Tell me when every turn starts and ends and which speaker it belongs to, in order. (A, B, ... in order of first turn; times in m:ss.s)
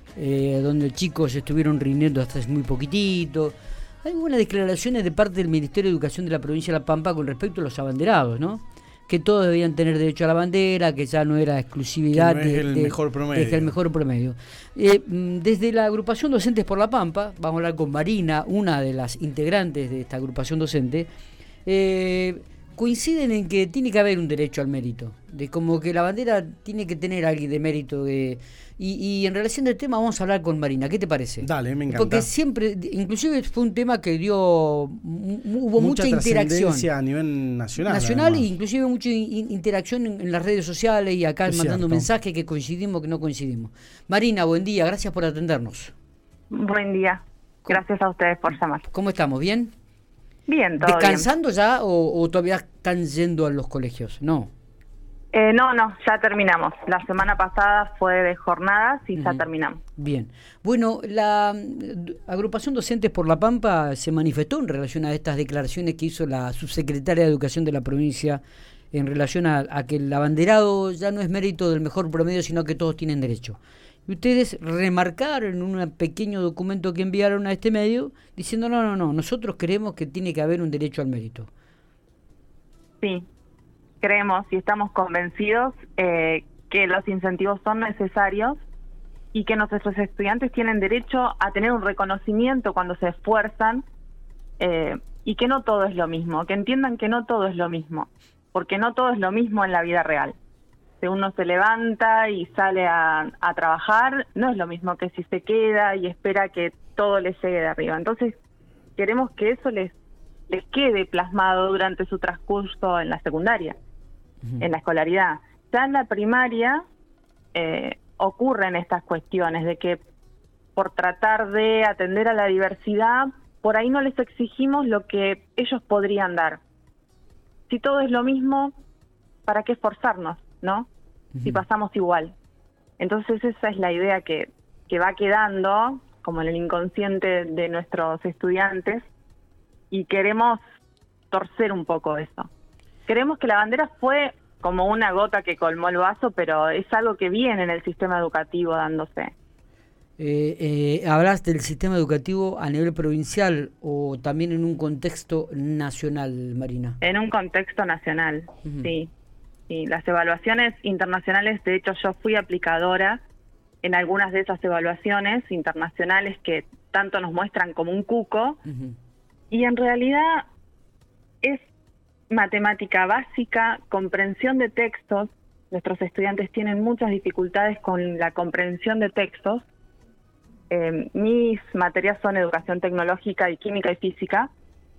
0:00.2-0:21.1 A
0:12.1-0:13.7 B
0:21.6-0:36.9 A
0:31.4-0:32.3 B
0:35.8-0:38.4 B
0:37.8-0:45.9 A
0:41.5-0:42.1 B
0:46.5-0:48.8 C
0:48.9-0:49.7 A
0:50.5-0:51.3 C
0:50.8-0:54.5 A
0:55.3-0:59.8 C
0:59.1-0:59.4 A
1:00.0-1:08.4 A
1:08.9-1:21.5 A
1:24.0-1:28.6 C
1:29.3-1:33.8 C
1:34.6-1:40.4 C
1:41.0-1:48.3 C
1:49.0-1:49.9 C
1:50.5-1:53.8 C
1:54.6-1:56.8 C
1:57.5-2:00.0 C
2:00.8-2:06.6 C
2:07.7-2:08.7 C
2:09.5-2:10.9 C
2:11.3-2:11.6 A
2:11.4-2:12.3 C
2:13.0-2:19.1 C
2:19.9-2:20.6 C
2:21.3-2:22.5 C
2:23.1-2:29.3 C
2:30.2-2:37.0 A
2:37.0-2:39.1 C
2:38.6-2:38.9 A
2:39.7-2:43.2 C
2:43.8-2:48.6 C
2:48.7-2:48.9 A
2:49.5-2:50.5 C
2:52.3-2:59.6 C
3:00.7-3:04.5 C